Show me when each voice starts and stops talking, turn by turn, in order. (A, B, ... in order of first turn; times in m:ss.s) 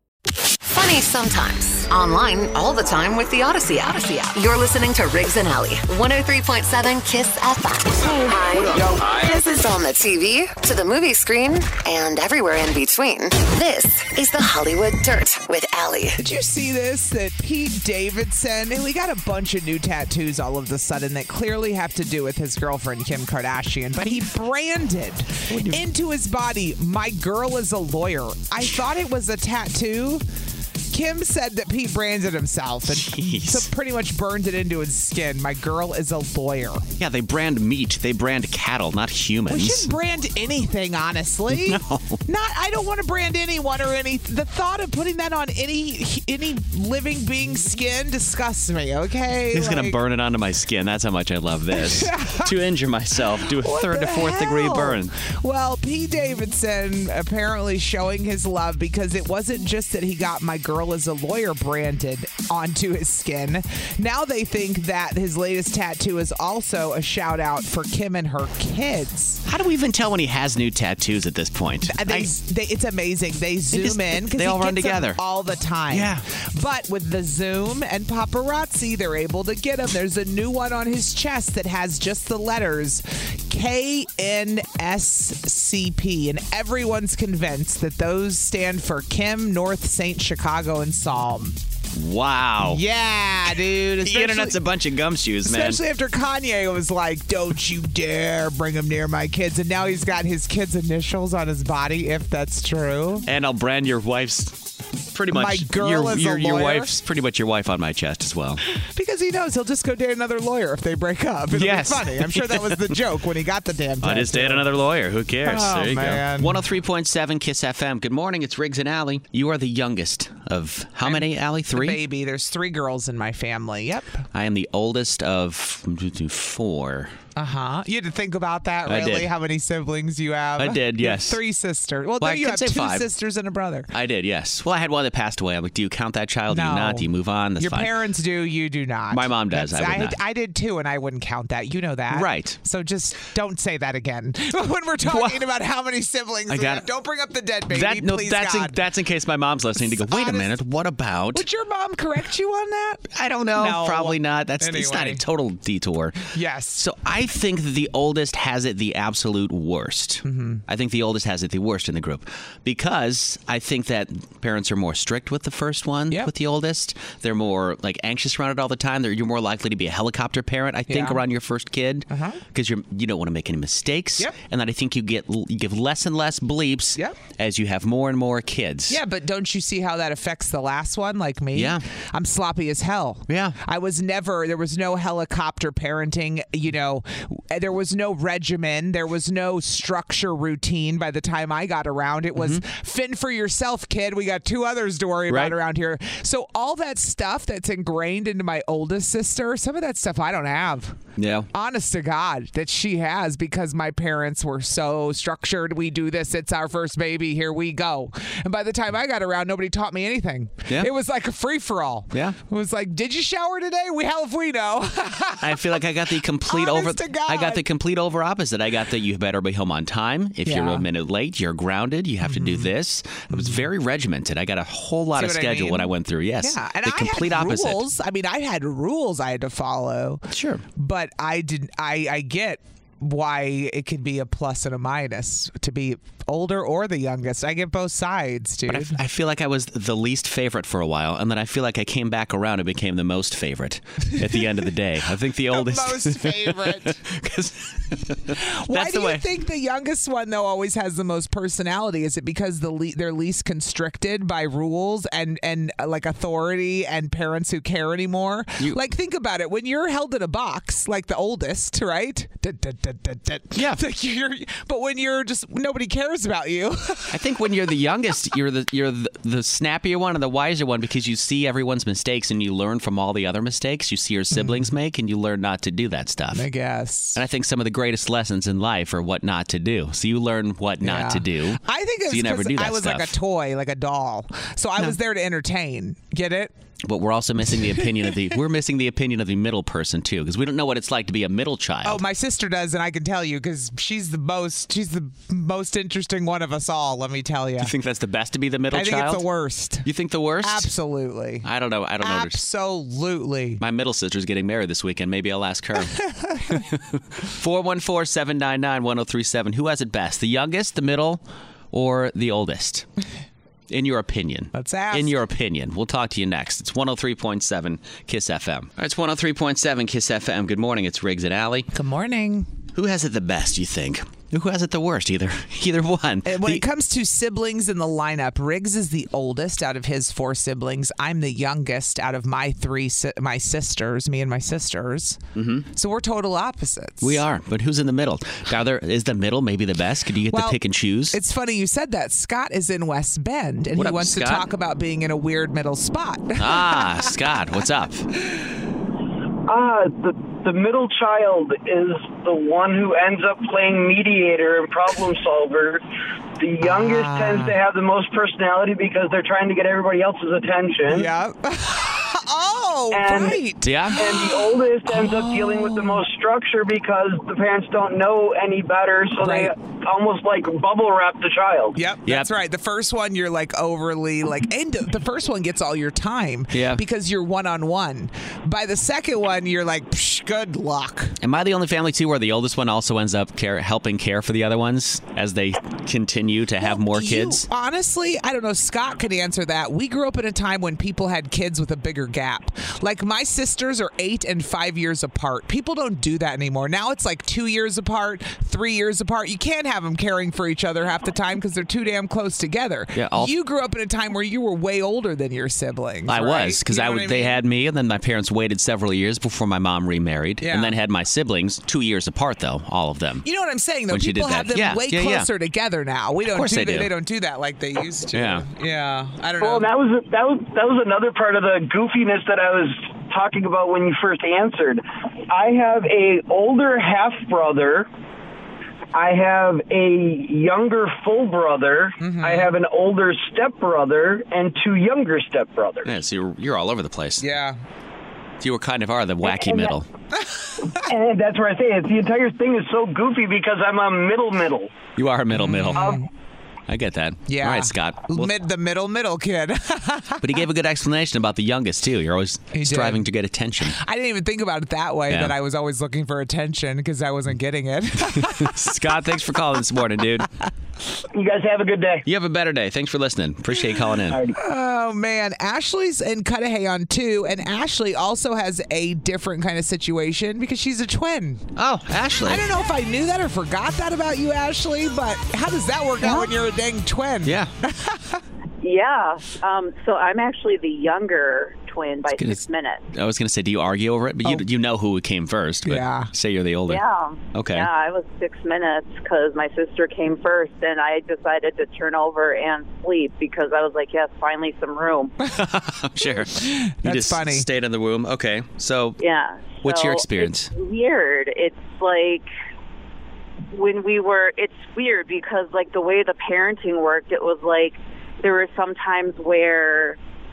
0:00.6-0:16.2 A
0:16.2-0:30.2 B
0:25.5-0:25.8 C
0:30.9-0:36.8 B
0:32.9-0:33.7 C
0:37.0-0:39.9 C
0:39.5-0:50.0 B
0:41.5-0:42.2 C
0:49.5-0:55.1 C
0:51.8-0:52.5 B
0:53.6-1:09.4 B
1:09.4-1:12.3 C
1:11.9-1:31.6 B
1:13.7-1:15.2 C
1:15.9-1:16.2 C
1:31.9-1:32.8 C
1:32.6-1:34.6 B
1:34.0-1:35.8 C
1:35.4-1:43.3 B
1:43.2-1:48.6 C
1:45.3-1:46.9 B
1:48.8-1:54.6 B
1:51.5-1:53.0 C
1:54.0-2:02.0 C
1:55.4-1:56.6 B
2:01.0-2:04.2 B
2:04.3-2:07.1 C
2:07.4-2:13.9 B
2:08.9-2:09.3 C
2:10.6-2:11.4 C
2:12.2-2:13.1 C
2:13.9-2:17.9 C
2:16.5-2:17.1 B
2:17.6-2:28.8 B
2:19.1-2:20.2 C
2:22.1-2:22.6 C
2:25.0-2:25.4 C
2:26.5-2:26.8 C
2:27.7-2:31.4 C
2:29.8-2:30.5 B
2:31.3-2:35.2 B
2:33.1-2:59.0 C
2:36.3-2:36.8 B
2:40.2-2:40.6 B
2:50.9-2:51.2 B
2:52.1-2:52.4 B
2:58.9-3:21.0 B
3:01.5-3:01.8 C
3:03.3-3:03.6 C
3:12.4-3:12.6 C
3:15.3-3:15.6 C
3:21.2-3:21.5 C
3:21.5-3:35.8 B
3:32.1-3:32.4 C
3:35.4-3:47.8 C
3:36.5-3:37.6 B
3:40.4-3:40.8 B
3:42.2-3:42.7 B
3:43.3-3:43.6 B
3:45.2-3:45.9 B
3:46.4-3:59.0 B
3:50.3-3:50.6 C
3:58.7-4:09.2 C
4:05.5-4:07.0 B
4:08.4-4:27.2 B
4:23.5-4:23.8 C
4:27.1-4:36.4 C
4:34.3-4:34.7 B
4:36.3-4:37.2 B
4:37.1-4:43.1 C
4:40.8-4:46.5 B
4:46.9-4:52.0 C
4:47.6-4:48.1 B
4:51.8-4:57.7 B
4:57.6-4:59.2 C
4:58.7-4:59.8 B
4:59.8-5:00.7 C
5:00.4-5:01.4 B
5:01.4-5:02.4 C
5:02.0-5:03.6 B
5:03.6-5:12.8 C
5:05.9-5:06.6 B
5:13.7-5:21.7 C
5:14.5-5:15.2 B
5:21.7-5:22.5 B
5:22.7-5:26.6 C
5:26.2-5:35.2 B
5:35.4-5:35.7 C
5:35.7-5:37.2 B
5:37.0-5:41.2 C
5:40.3-5:40.6 B
5:41.1-5:47.1 B
5:43.8-5:44.5 C
5:46.4-5:48.1 C
5:49.4-5:55.8 D
5:56.4-6:01.1 D
5:56.6-5:57.6 B
6:00.9-6:06.0 B
6:02.9-6:03.4 D
6:03.6-6:04.0 C
6:04.0-6:11.8 D
6:09.2-6:09.5 B
6:11.7-6:21.2 B
6:16.5-6:16.8 C
6:21.2-6:27.4 C
6:26.6-6:47.4 B
6:42.9-6:43.3 C
6:46.1-6:53.2 C
6:50.4-6:50.7 B
6:53.2-6:59.7 B
6:53.9-6:55.3 C
6:56.3-6:56.9 C
6:58.1-6:58.4 C
6:59.4-7:07.9 D
7:08.9-7:15.9 D
7:12.0-7:12.5 B
7:15.8-7:17.2 C
7:17.2-7:17.6 B
7:18.4-7:19.9 C
7:19.2-7:19.8 D
7:20.7-7:24.8 D
7:25.0-7:25.9 C
7:25.3-7:26.1 B
7:26.7-7:28.3 C
7:27.3-7:30.4 B
7:30.2-7:33.8 C
7:32.5-7:33.0 B
7:33.7-7:38.5 B
7:35.1-7:35.3 C
7:38.0-7:40.3 C
7:41.1-7:42.0 D
7:42.0-7:44.2 C
7:44.1-7:44.4 D
7:44.3-7:51.4 B
7:51.6-7:52.4 C
7:52.2-7:58.2 B
7:57.2-7:57.5 C
7:58.6-8:02.8 E
8:02.1-8:06.8 C
8:05.6-8:06.1 B
8:06.7-8:15.1 E
8:07.3-8:07.7 C
8:15.3-8:19.0 C
8:16.0-8:17.4 B
8:19.0-8:22.3 E
8:19.6-8:20.5 C
8:23.5-8:30.0 E